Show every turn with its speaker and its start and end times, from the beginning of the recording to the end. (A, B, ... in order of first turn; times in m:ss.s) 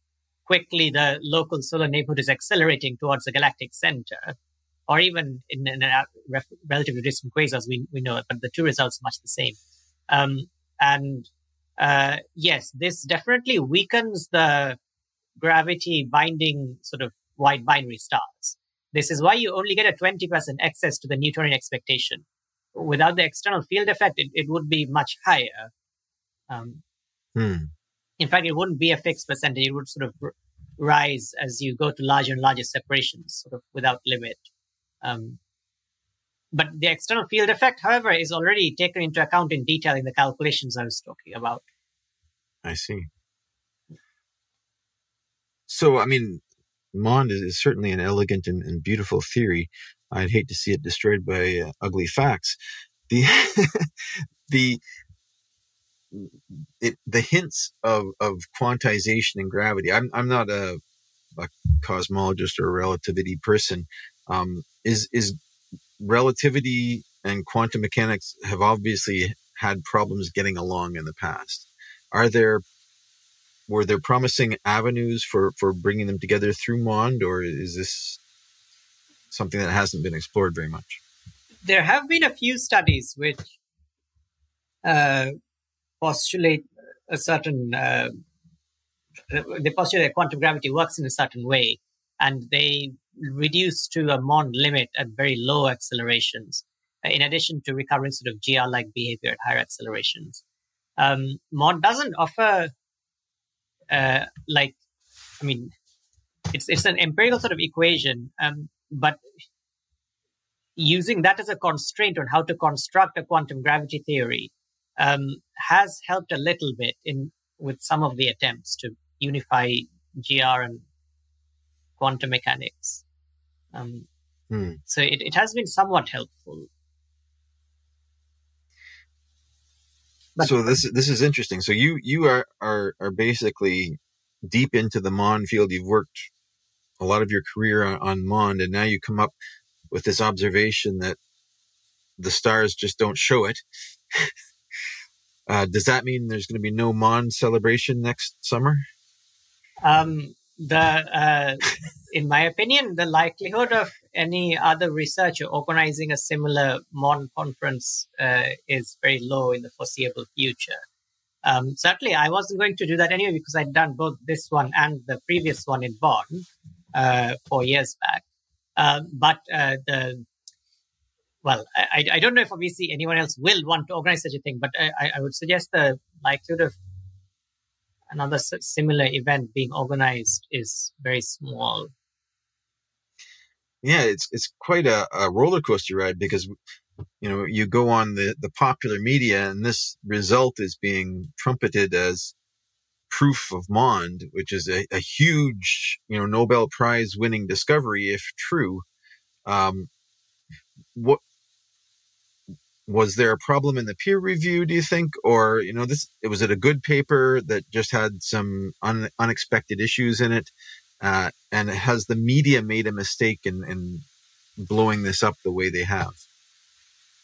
0:00.4-0:04.4 A
0:04.9-0:09.6 A
0:10.1-0:14.8 A
0:15.4-0:25.7 A
0:26.5-0:26.8 A
0:27.4-0:27.7 B
0:28.2-0:34.4 A
0:35.0-0:35.4 A
0:36.5-0:41.6 A
0:42.6-0:43.1 B
0:45.7-0:46.4 B
0:46.9-0:52.6 B
0:53.1-0:53.9 B
0:54.5-0:54.8 B
0:56.1-1:00.8 B
1:01.4-1:05.4 B
1:06.0-1:12.6 B
1:13.7-1:18.2 B
1:19.3-1:21.0 B
1:21.6-1:23.5 A
1:24.8-1:25.3 A
1:26.0-1:28.2 A
1:29.3-1:40.4 A
1:41.0-1:42.7 A
1:43.9-1:44.8 A
1:45.4-1:45.7 A
1:46.5-1:49.2 A
1:50.8-2:00.9 A
2:02.0-2:03.0 A
2:03.7-2:04.1 A
2:04.5-2:04.8 B
2:04.9-2:06.7 A
2:10.4-2:10.8 A
2:10.4-2:16.3 B
2:17.0-2:19.3 B
2:19.9-2:21.2 B
2:22.2-2:24.3 B
2:25.5-2:28.8 B
2:29.8-2:40.8 A
2:41.4-2:48.2 A
2:48.8-2:50.3 A
2:51.4-2:56.7 A
2:58.1-3:01.9 A
3:03.8-3:06.5 B
3:07.2-3:12.3 B
3:13.1-3:18.8 B
3:19.4-3:19.9 B
3:20.9-3:21.2 B
3:22.9-3:34.0 B
3:34.6-3:36.2 B